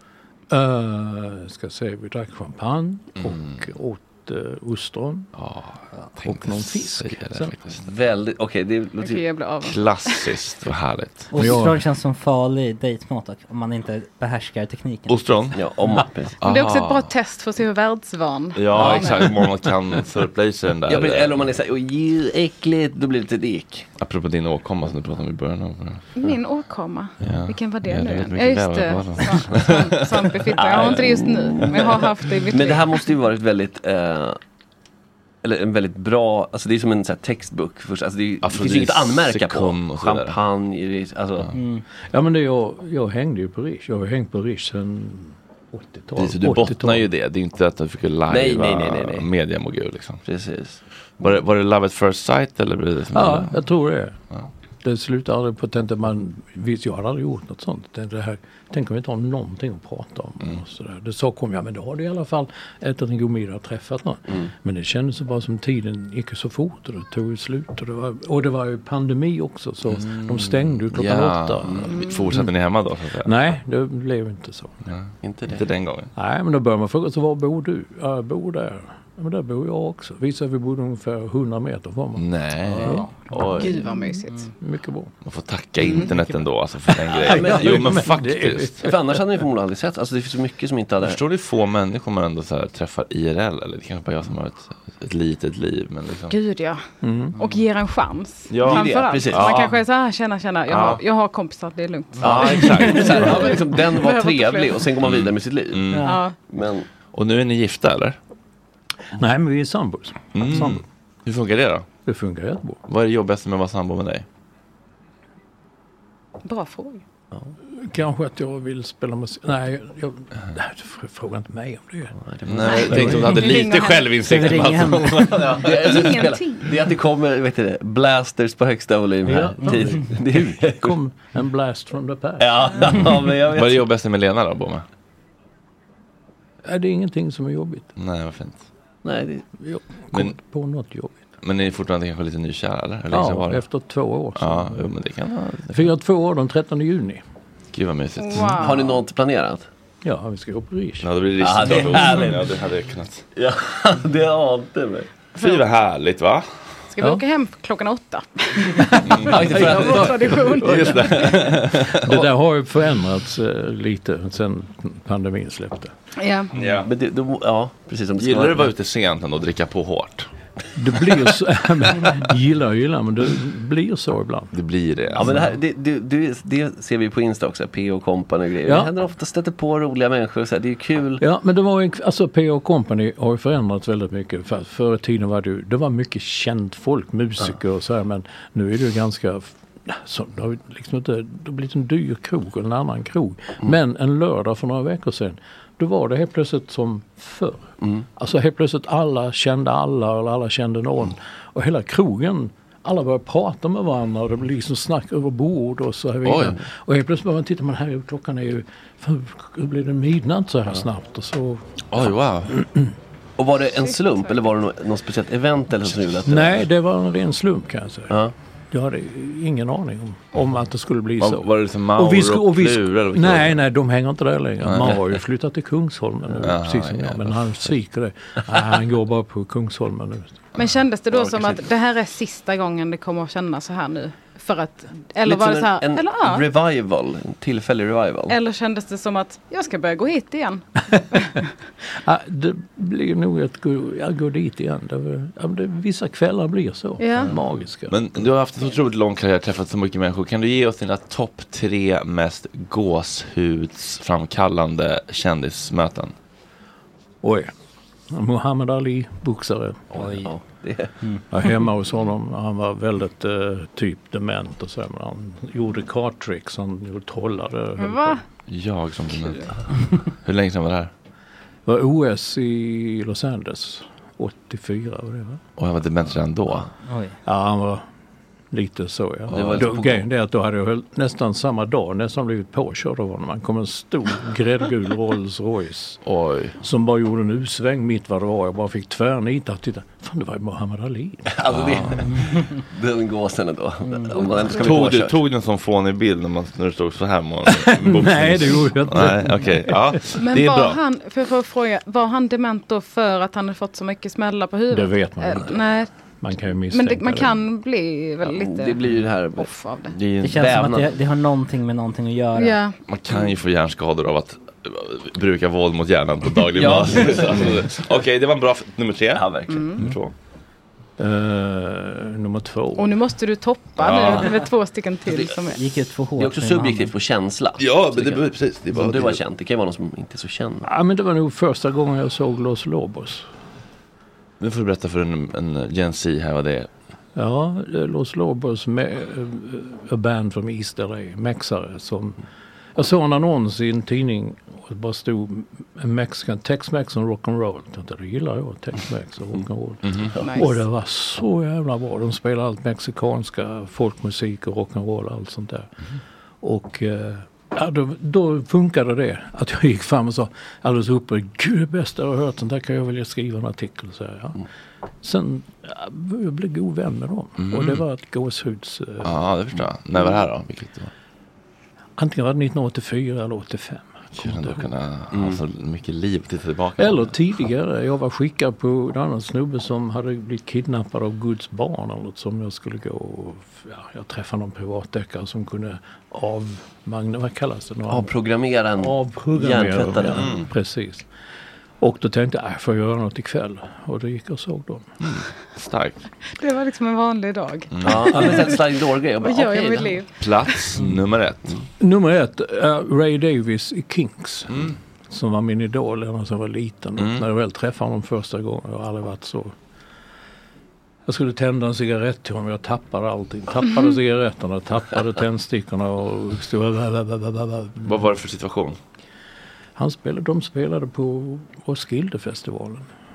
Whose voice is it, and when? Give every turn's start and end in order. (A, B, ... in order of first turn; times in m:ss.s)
0:00.5-0:05.3 A
0:03.2-0:03.6 B
0:05.4-0:07.9 B
0:06.2-0:07.6 A
0:07.8-0:09.2 C
0:09.0-0:10.3 D
0:09.6-0:11.3 B
0:11.3-0:15.2 E
0:11.4-0:11.8 A
0:15.1-0:15.6 B
0:15.6-0:16.4 C
0:16.4-0:17.1 B
0:16.4-0:19.3 D
0:18.6-0:21.4 B
0:18.8-0:19.2 A
0:20.9-0:23.9 C
0:24.0-0:26.0 B
0:26.2-0:33.0 D
0:27.2-0:30.3 B
0:30.5-0:34.4 C
0:35.4-0:41.5 C
0:38.4-0:40.4 B
0:41.6-0:41.8 E
0:42.1-0:47.1 A
0:46.2-0:50.2 B
0:48.3-0:49.3 C
0:50.2-0:51.3 C
0:51.2-0:53.6 B
0:53.1-0:54.2 A
0:54.8-1:12.5 A
1:09.9-1:13.3 B
1:11.9-1:12.2 D
1:13.2-1:14.8 A
1:14.9-1:16.1 B
1:15.2-1:15.6 C
1:16.2-1:23.9 A
1:22.2-1:23.7 B
1:22.8-1:23.1 E
1:23.4-1:24.5 D
1:24.6-1:25.2 A
1:25.2-1:28.8 B
1:26.9-1:29.2 A
1:27.2-1:27.9 C
1:28.8-1:31.2 C
1:31.0-1:36.3 B
1:36.3-1:36.8 D
1:37.0-1:37.4 A
1:37.4-1:44.9 D
1:38.5-1:39.8 B
1:38.6-1:39.6 C
1:40.7-1:41.0 B
1:42.2-1:43.6 B
1:42.2-1:46.9 C
1:45.0-1:46.2 B
1:46.0-1:46.4 D
1:47.1-1:48.2 B
1:49.2-1:50.8 A
1:50.3-1:51.9 B
1:52.0-1:52.8 A
1:52.9-1:54.2 B
1:56.4-1:57.0 D
1:57.7-2:02.2 A
2:02.2-2:03.2 C
2:02.5-2:06.0 B
2:02.7-2:04.1 D
2:02.8-2:03.4 A
2:04.2-2:05.4 E
2:05.4-2:11.0 C
2:05.6-2:06.8 D
2:09.2-2:13.1 A
2:12.4-2:13.9 C
2:13.5-2:14.8 B
2:16.6-2:17.9 A
2:18.0-2:18.6 B
2:19.0-2:19.4 C
2:19.6-2:21.3 A
2:21.4-2:23.6 B
2:23.1-2:24.9 A
2:24.4-2:25.9 B
2:25.7-2:27.2 A
2:27.7-2:28.7 B
2:28.2-2:29.0 D
2:28.6-2:29.7 C
2:30.0-2:31.1 A
2:31.0-2:33.2 B
2:31.4-2:32.4 C
2:33.4-2:35.1 C
2:35.4-2:36.5 B
2:35.4-2:35.6 D
2:36.9-2:41.4 D
2:38.9-2:45.9 A
2:39.3-2:40.3 C
2:40.6-2:42.2 B
2:46.2-2:46.5 D
2:46.6-2:46.9 B
2:46.6-2:48.7 C
2:48.2-2:50.3 B
2:50.8-2:54.5 A
2:54.5-2:55.3 B
2:55.2-3:01.2 C
2:58.6-2:58.9 A
3:01.2-3:31.8 A
3:17.8-3:18.1 C
3:26.2-3:26.6 B
3:31.9-3:32.6 B
3:32.6-3:32.9 A
3:33.4-3:36.7 C
3:36.2-3:38.2 A
3:38.7-3:50.5 A
3:41.2-3:43.6 B
3:44.6-3:45.0 B
3:46.4-3:47.5 B
3:50.6-3:56.4 D
3:51.1-3:51.6 C
3:55.2-3:58.4 C
3:58.3-4:00.7 D
4:02.0-4:08.3 A
4:07.0-4:07.4 D
4:07.9-4:16.1 B
4:17.2-4:17.5 A
4:18.1-4:19.9 A
4:19.9-4:20.9 C
4:20.0-4:20.3 E
4:21.3-4:28.2 A
4:27.8-4:28.2 D
4:28.5-4:30.9 B
4:31.7-4:35.4 A
4:35.6-4:36.7 B
4:36.9-4:37.2 E
4:37.3-4:37.8 A
4:38.5-4:46.0 A
4:39.3-4:39.7 B
4:39.3-4:40.0 C
4:46.0-4:46.6 B
4:46.6-4:51.4 A
4:51.3-4:55.2 C
4:51.5-4:52.1 B
4:54.5-5:00.8 B
4:57.5-5:00.0 A
5:00.2-5:05.9 D
5:04.7-5:05.6 A
5:06.2-5:07.4 A
5:06.7-5:08.8 D
5:08.2-5:09.5 C
5:09.4-5:10.0 D
5:09.9-5:10.5 B
5:10.2-5:12.6 E
5:10.2-5:10.9 C
5:12.4-5:12.8 D
5:12.9-5:20.1 B
5:16.5-5:17.8 C
5:19.2-5:19.6 C
5:19.5-5:19.8 D
5:21.0-5:23.0 A
5:22.8-5:25.6 D
5:23.8-5:24.3 B
5:25.1-5:25.3 C
5:25.6-5:26.9 E
5:26.2-5:30.7 C
5:27.6-5:29.2 B
5:30.6-5:33.3 A
5:34.4-5:36.7 B
5:37.2-5:42.2 A
5:42.8-5:55.7 A
5:49.8-5:50.1 B
5:50.2-5:50.6 D
5:56.4-6:04.4 A
6:05.0-6:09.2 A
6:07.4-6:07.8 B
6:09.0-6:10.9 B
6:12.0-6:14.7 A
6:14.2-6:17.1 B
6:15.1-6:15.4 C
6:16.8-6:28.1 A
6:27.9-6:30.4 C
6:28.8-6:31.1 A
6:31.8-6:34.9 A
6:35.0-6:36.0 B
6:36.4-6:38.6 D
6:37.7-6:38.2 B
6:37.8-6:40.0 C
6:39.2-6:40.1 D
6:40.2-6:41.6 B
6:41.8-6:49.5 A
6:44.5-6:44.8 B
6:47.0-6:47.2 B
6:51.1-6:58.0 A
6:57.8-6:58.8 B
6:59.8-7:02.9 A